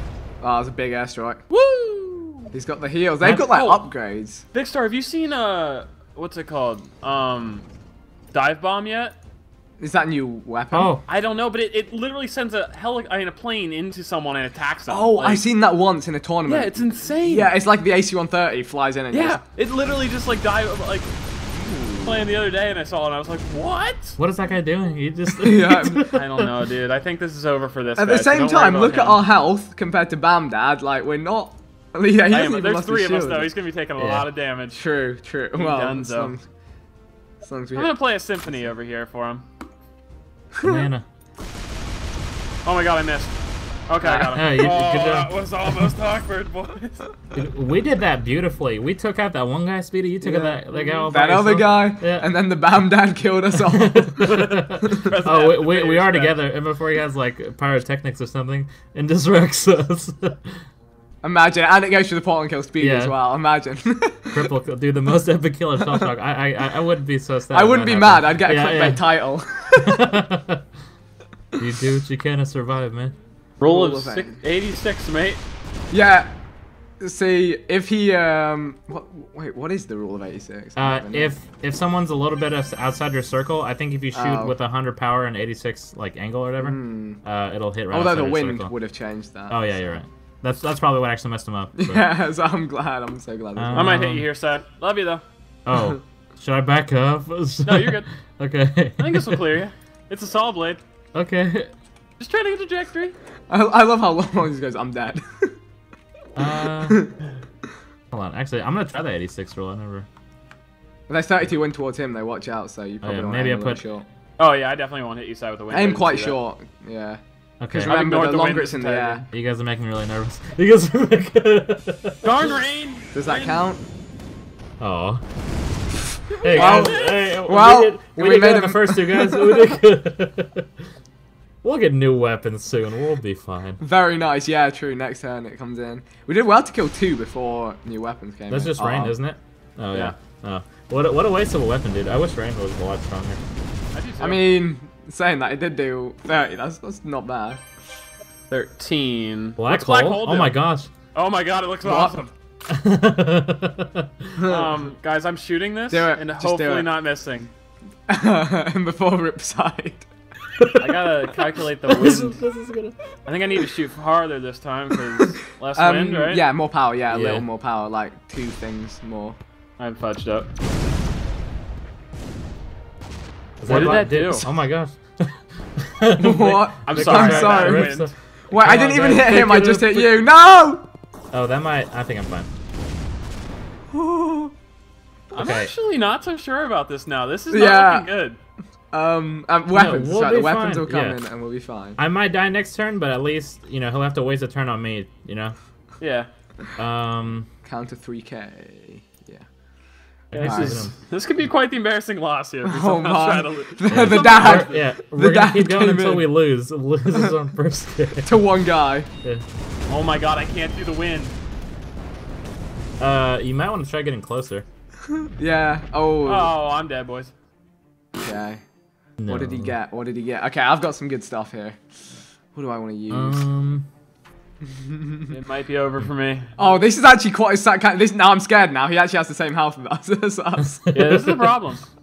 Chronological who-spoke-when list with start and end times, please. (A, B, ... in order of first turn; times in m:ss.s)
0:00.4-0:01.4 A
0:01.5-0:02.5 B
0:02.5-0:04.4 A
0:03.5-0:03.8 B
0:04.5-0:07.6 B
0:08.3-0:09.1 B
0:09.8-0:11.0 A
0:10.7-0:11.0 C
0:11.1-0:15.4 B
0:14.9-0:19.4 A
0:16.4-0:17.5 B
0:19.1-0:21.1 B
0:21.6-0:22.2 A
0:22.0-0:24.2 B
0:24.2-0:26.5 C
0:25.3-0:26.1 A
0:26.1-0:29.2 B
0:28.0-0:33.5 A
0:32.3-0:34.8 B
0:34.0-0:34.3 C
0:34.7-0:36.4 A
0:35.5-0:36.3 B
0:37.4-0:37.9 A
0:37.7-0:39.4 B
0:40.6-0:40.9 A
0:40.6-0:41.0 C
0:42.6-0:43.3 B
0:43.9-0:47.1 B
0:44.0-0:44.5 A
0:44.3-0:45.9 C
0:47.3-0:52.3 C
0:50.2-0:55.1 A
0:53.5-1:00.6 C
0:54.3-0:56.4 B
1:01.2-1:04.5 A
1:02.8-1:03.1 C
1:04.3-1:09.2 C
1:07.5-1:10.1 A
1:09.8-1:10.6 C
1:11.6-1:13.2 C
1:13.6-1:15.4 B
1:13.6-1:14.4 A
1:15.9-1:16.3 A
1:17.0-1:21.3 A
1:20.8-1:28.7 C
1:24.1-1:24.6 A
1:26.6-1:27.2 A
1:27.9-1:29.7 A
1:29.5-1:32.0 C
1:31.8-1:34.0 A
1:33.6-1:34.3 C
1:33.7-1:35.2 B
1:35.6-1:39.4 C
1:37.6-1:38.1 B
1:39.0-1:40.8 B
1:41.1-1:41.7 C
1:42.2-1:43.1 B
1:43.5-1:45.5 A
1:46.4-1:47.1 C
1:46.7-1:47.1 A
1:48.1-1:50.1 C
1:51.1-1:54.0 A
1:53.0-1:53.8 C
1:54.4-1:56.4 B
1:55.7-1:59.2 A
1:57.6-1:58.0 C
1:57.8-1:59.2 B
1:59.3-2:02.2 C
2:02.2-2:03.6 B
2:03.1-2:03.8 A
2:04.8-2:05.2 C
2:06.3-2:09.8 A
2:06.4-2:10.7 C
2:06.4-2:07.3 B
2:11.6-2:13.8 C
2:13.8-2:19.2 A
2:18.5-2:23.4 C
2:23.9-2:24.4 B
2:24.2-2:27.6 A
2:28.5-2:30.6 B
2:29.6-2:30.9 C
2:31.1-2:32.3 B
2:31.8-2:32.2 A
2:32.7-2:34.3 C
2:34.4-2:34.8 A
2:34.4-2:37.5 B
2:35.9-2:36.9 A
2:38.1-2:40.1 A
2:40.6-2:41.1 C
2:40.8-2:42.4 B
2:41.9-2:43.0 C
2:43.2-2:46.4 B
2:45.7-2:49.4 A
2:47.1-2:47.4 C
2:49.8-2:50.5 B
2:53.6-3:00.3 C
2:53.6-2:54.5 B
2:56.2-3:00.8 A
2:56.8-2:58.1 B
3:01.3-3:02.5 C
3:03.9-3:04.5 A
3:05.3-3:05.7 C
3:05.3-3:08.4 B
3:07.5-3:08.1 A
3:08.9-3:12.0 A
3:09.7-3:11.2 C
3:12.0-3:15.6 C
3:16.0-3:16.3 B
3:16.8-3:17.5 C
3:17.6-3:19.4 A
3:20.3-3:24.8 B
3:20.4-3:20.9 C
3:20.4-3:20.9 A
3:22.6-3:26.3 A
3:23.9-3:28.4 C
3:28.2-3:29.1 A
3:29.9-3:31.3 B
3:33.0-3:34.7 C
3:35.1-3:36.5 A
3:36.2-3:37.3 B
3:38.2-3:38.6 A
3:39.2-3:39.7 C
3:39.3-3:41.8 A
3:42.5-3:43.4 A
3:43.1-3:43.9 C
3:44.6-3:45.3 A
3:45.3-3:46.8 B
3:46.6-3:50.9 A
3:50.8-3:51.5 C
3:50.9-3:51.8 B